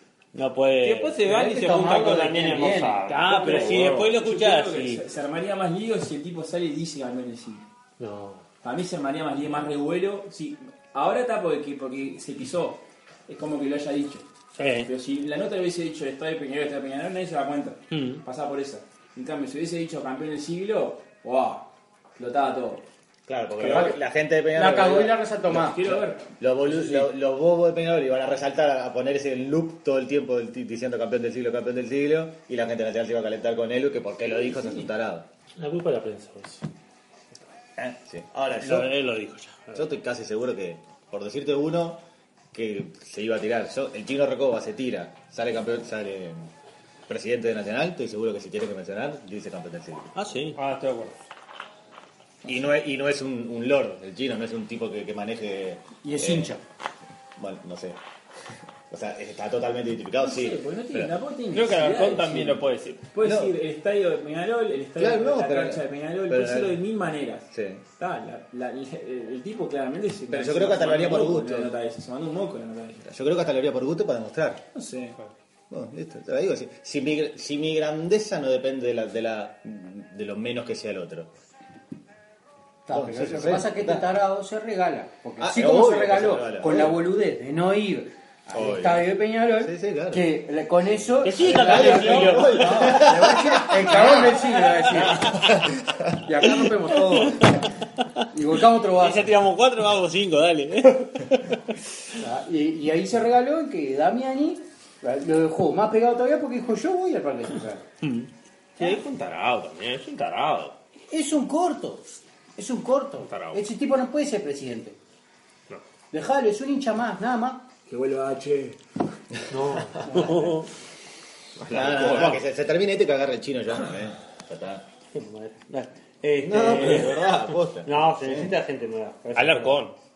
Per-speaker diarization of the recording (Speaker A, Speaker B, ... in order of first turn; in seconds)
Speaker A: 0.3-1.2, 3.0-5.0, 14.6-14.9, 17.9-18.2, 38.6-39.9, 50.1-50.6, 91.2-93.1, 94.9-95.3, 96.9-97.5, 98.9-101.6, 108.0-108.3, 120.1-120.7, 122.1-122.3, 125.1-129.9
Speaker B: 0.8-4.1, 50.5-51.1, 61.5-63.0, 108.8-110.8, 113.2-113.6, 121.6-122.4, 129.3-129.9
Speaker C: 1.2-3.0, 23.6-23.9, 24.5-25.8, 56.0-56.6, 82.8-95.3, 96.2-97.7, 98.3-99.3, 102.2-107.8, 111.1-112.0, 112.5-115.0, 116.1-117.7
Speaker D: 3.2-7.7, 8.6-14.3, 14.8-22.9, 25.5-27.1, 60.2-73.1, 74.7-75.2, 117.9-118.8
Speaker E: 8.0-8.4, 35.6-36.6, 119.5-120.1
Speaker F: 23.3-35.2, 37.8-38.9, 39.7-46.5, 47.1-50.1, 52.4-56.5, 57.4-58.0, 58.9-61.1, 63.2-63.6, 65.0-66.8, 67.5-67.8, 70.3-71.7, 73.0-74.6, 75.7-81.3, 82.9-84.1, 85.4-87.0, 88.5-90.3, 91.4-96.4, 121.7-124.8, 126.4-128.5